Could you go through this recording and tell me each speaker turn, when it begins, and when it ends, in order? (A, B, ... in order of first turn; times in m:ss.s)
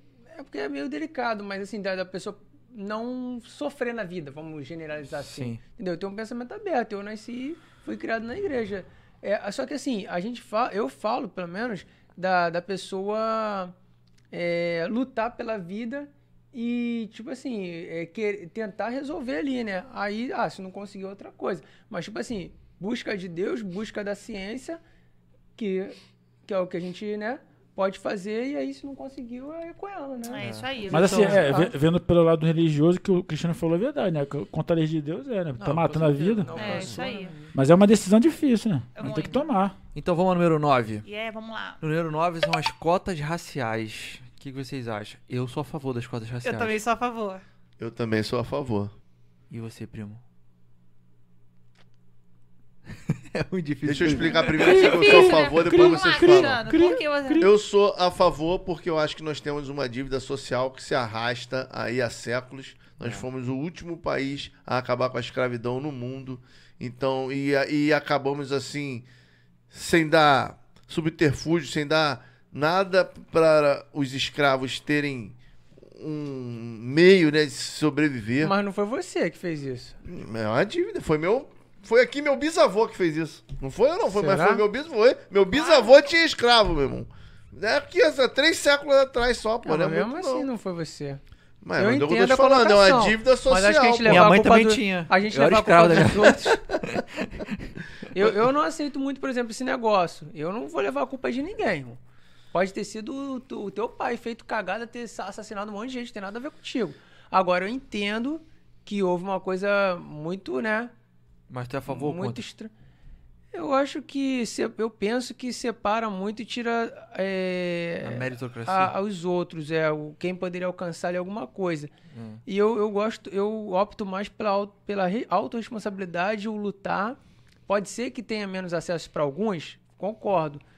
0:00.3-0:13.7 A
0:05.2-0:05.6 B
0:14.3-0:24.8 A
0:25.6-0:31.8 A
0:30.2-0:31.4 C
0:30.4-0:31.6 B
0:30.9-0:36.5 D
0:35.6-0:36.8 B
0:35.9-0:37.6 A
0:36.6-0:37.3 C
0:37.5-0:39.8 D
0:39.0-0:39.4 C
0:40.0-0:41.0 B
0:41.0-0:41.8 C
0:41.8-0:46.8 B
0:46.4-0:47.4 C
0:47.8-0:48.9 E
0:49.5-0:50.2 B
0:53.1-0:54.8 B
0:53.8-0:56.6 E
0:54.3-0:57.5 C
0:54.6-0:57.5 D
0:57.4-1:09.1 E
1:03.0-1:03.3 B
1:09.7-1:15.4 E
1:15.9-1:18.6 E
1:18.4-1:20.0 A
1:20.0-1:30.5 E
1:24.0-1:24.6 A
1:25.5-1:26.1 C
1:29.6-1:31.2 A
1:31.6-1:34.3 E
1:31.8-1:36.7 A
1:34.1-1:37.7 B
1:38.1-1:42.0 A
1:42.5-1:50.9 A
1:51.5-1:52.5 B
1:51.9-1:52.7 A
1:53.5-2:01.9 A
1:58.0-1:59.0 B
2:02.1-2:02.4 B
2:02.5-2:10.6 A